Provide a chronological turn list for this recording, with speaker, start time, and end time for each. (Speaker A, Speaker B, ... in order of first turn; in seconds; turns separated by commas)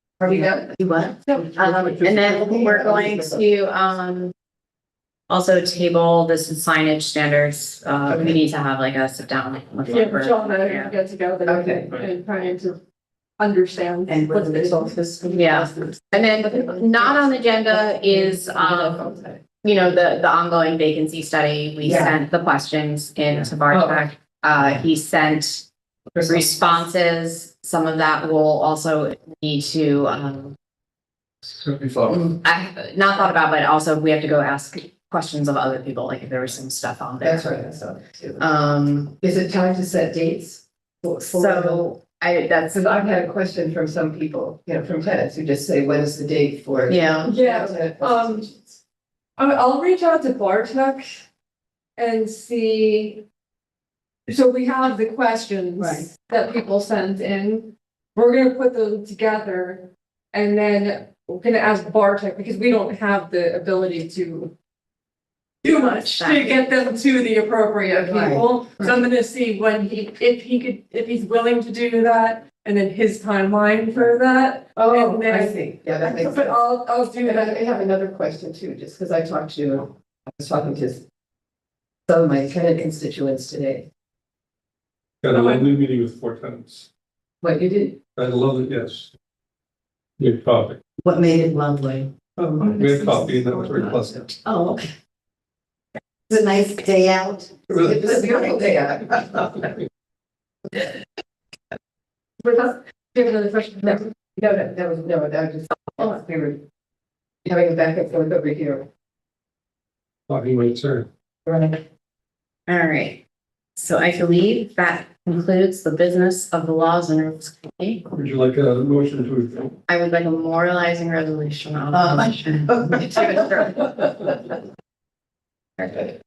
Speaker A: 0.2-0.7, Speaker B: 0.3-1.3, Speaker C: 1.1-4.3, Speaker D: 1.6-3.3, Speaker A: 2.4-3.4, Speaker C: 5.3-10.9, Speaker A: 8.1-8.4, Speaker E: 9.9-12.8, Speaker A: 11.5-11.9, Speaker E: 13.4-15.0, Speaker B: 14.1-16.2, Speaker C: 15.3-19.1, Speaker A: 16.2-19.4, Speaker C: 19.6-25.7, Speaker B: 21.8-22.2, Speaker A: 21.9-22.2, Speaker A: 23.7-24.1, Speaker A: 26.1-26.9, Speaker C: 26.2-30.5, Speaker D: 31.4-32.4, Speaker C: 32.1-37.5, Speaker A: 37.2-38.5, Speaker C: 38.4-39.1, Speaker A: 39.2-41.9, Speaker C: 41.2-42.9, Speaker A: 42.7-48.8, Speaker C: 46.9-47.4, Speaker E: 47.2-48.5, Speaker E: 49.4-51.2, Speaker E: 52.0-53.2, Speaker E: 54.3-64.5, Speaker B: 55.8-56.1, Speaker E: 65.6-77.6, Speaker C: 65.6-66.7, Speaker B: 68.1-68.5, Speaker A: 74.8-76.6, Speaker A: 77.2-81.0, Speaker A: 82.1-83.9, Speaker D: 85.2-86.9, Speaker E: 85.3-85.7, Speaker A: 87.4-88.0, Speaker D: 88.2-89.1, Speaker D: 90.2-90.8, Speaker B: 91.0-92.1, Speaker D: 92.4-94.3, Speaker B: 92.8-93.2, Speaker B: 94.4-94.9, Speaker B: 96.3-98.7, Speaker D: 97.7-98.2, Speaker A: 97.8-99.7, Speaker E: 102.4-104.1, Speaker A: 104.4-106.6, Speaker A: 107.5-108.9, Speaker D: 110.3-111.1, Speaker A: 111.5-111.8, Speaker C: 112.7-113.2, Speaker C: 113.8-118.1, Speaker D: 118.1-119.8, Speaker C: 119.9-124.3, Speaker B: 121.9-123.8, Speaker C: 125.8-126.1